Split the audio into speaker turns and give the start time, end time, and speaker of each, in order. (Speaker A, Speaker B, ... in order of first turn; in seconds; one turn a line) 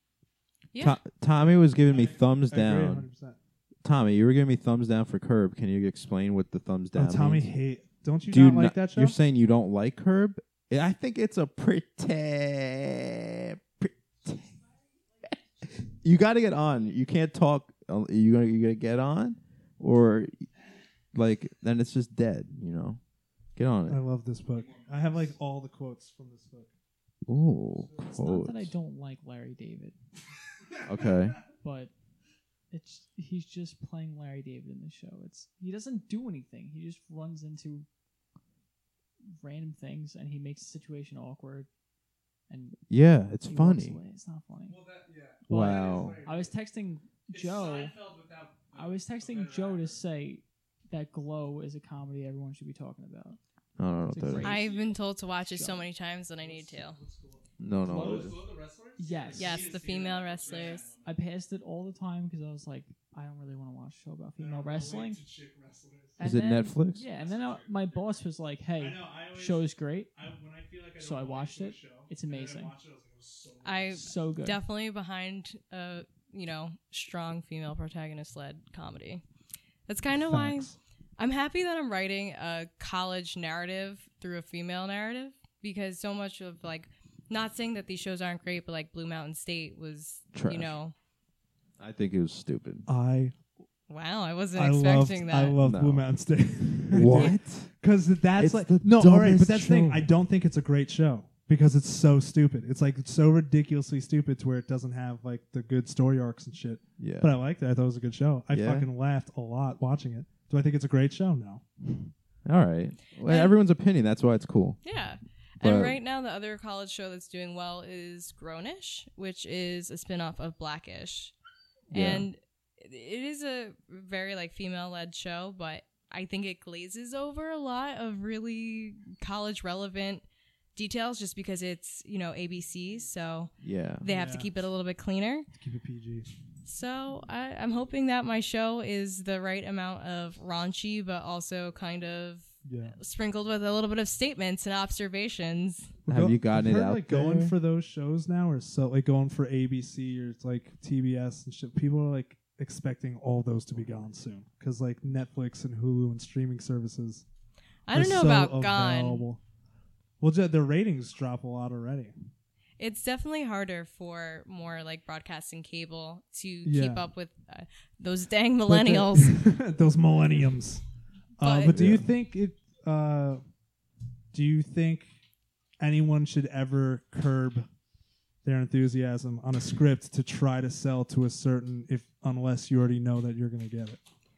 Speaker A: 0.7-1.0
Speaker B: 0.8-3.1
Speaker C: 1.6-3.4
Speaker B: 3.8-7.5
Speaker C: 7.0-9.2
Speaker B: 8.3-14.6
Speaker B: 15.6-20.5
Speaker B: 21.1-23.0
Speaker B: 23.6-24.0
Speaker C: 23.9-26.7
Speaker D: 24.5-25.3
Speaker B: 27.3-28.7
Speaker E: 28.0-30.0
Speaker B: 30.8-31.4
Speaker E: 31.6-31.9
Speaker E: 32.7-37.9
Speaker E: 39.4-41.7
Speaker E: 42.5-42.9
Speaker B: 42.9-44.0
Speaker E: 43.4-44.8
Speaker D: 44.8-46.1
Speaker C: 45.3-46.5
Speaker B: 45.5-46.2
Speaker E: 45.5-48.0
Speaker C: 47.4-47.9
Speaker D: 48.0-49.0
Speaker E: 48.7-53.4
Speaker C: 48.8-49.8
Speaker B: 53.8-54.6
Speaker E: 54.1-54.8
Speaker A: 54.4-57.0
Speaker C: 56.4-57.4
Speaker B: 57.6-58.4
Speaker E: 57.8-59.8
Speaker C: 58.0-59.7
Speaker D: 58.0-61.1
Speaker A: 59.3-60.9
Speaker E: 61.0-65.2
Speaker C: 64.4-66.2
Speaker E: 66.2-70.1
Speaker B: 66.2-67.0
Speaker D: 67.1-68.2
Speaker C: 68.8-74.2
Speaker E: 71.0-72.8
Speaker A: 73.6-79.2
Speaker E: 73.9-74.6
Speaker A: 79.9-90.9
Speaker C: 80.2-80.8
Speaker B: 90.3-90.7
Speaker B: 91.8-92.9
Speaker C: 92.9-93.3
Speaker A: 93.9-95.6
Speaker C: 94.6-112.1
Speaker B: 95.6-96.1
Speaker B: 96.9-97.7
Speaker A: 97.0-97.4
Speaker B: 98.4-100.1
Speaker B: 107.0-107.3
Speaker B: 108.5-108.9
Speaker B: 112.5-114.8
Speaker A: 113.3-113.5
Speaker A: 114.8-121.3
Speaker B: 115.6-116.0
Speaker A: 121.9-130.2
Speaker B: 121.9-122.3
Speaker A: 130.8-135.5
Speaker B: 133.6-134.1
Speaker C: 134.1-134.5
Speaker C: 135.5-136.3
Speaker A: 136.7-145.9
Speaker C: 142.7-143.0
Speaker C: 146.1-157.2
Speaker B: 146.1-147.6
Speaker A: 157.9-159.2
Speaker C: 157.9-159.4
Speaker C: 160.2-162.1
Speaker A: 162.8-169.4
Speaker C: 166.7-167.1
Speaker C: 168.7-170.8
Speaker C: 171.4-173.4
Speaker A: 171.4-171.9
Speaker B: 171.7-172.1
Speaker C: 174.3-175.1
Speaker C: 175.8-177.7
Speaker C: 178.4-184.0